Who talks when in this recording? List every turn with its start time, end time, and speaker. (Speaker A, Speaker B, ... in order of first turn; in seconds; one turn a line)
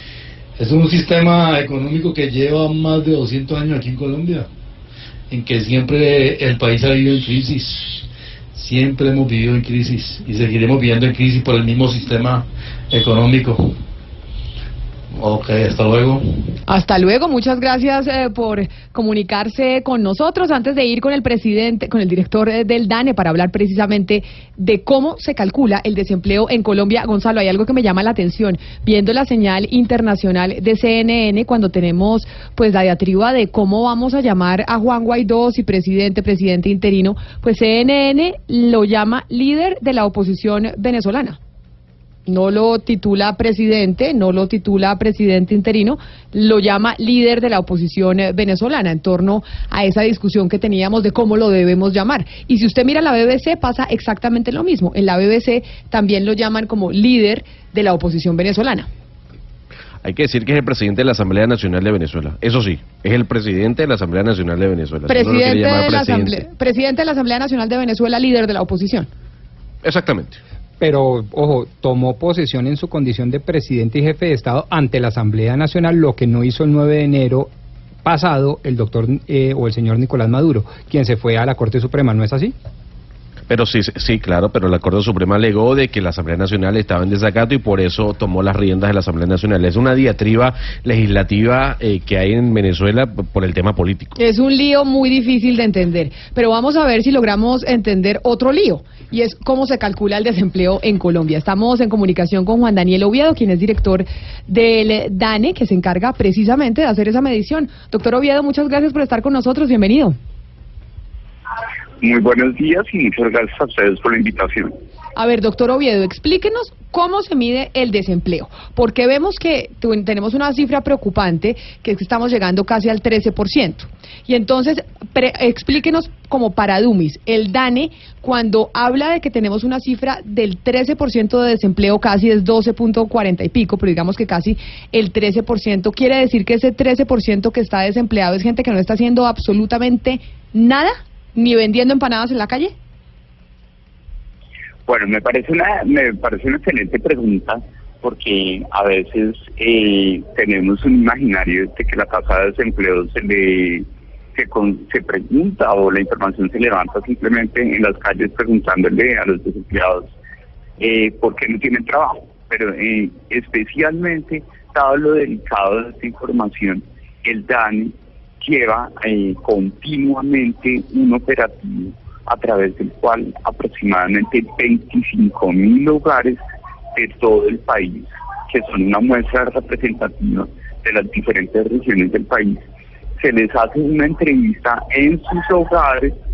Speaker A: 0.6-4.5
Speaker A: 5.3-13.8
Speaker A: 15.2-16.3
Speaker B: 16.7-41.4
Speaker B: 42.3-58.9
Speaker C: 60.0-66.4
Speaker B: 65.1-69.1
Speaker C: 69.8-70.4
Speaker D: 70.8-77.5
Speaker D: 78.0-82.5
Speaker C: 83.5-94.2
Speaker B: 94.2-110.2
Speaker E: 112.0-114.7
Speaker B: 115.2-142.7
Speaker E: 144.9-160.1
Speaker E: 160.8-176.4
Speaker E: 176.9-182.6
Speaker E: 183.2-186.2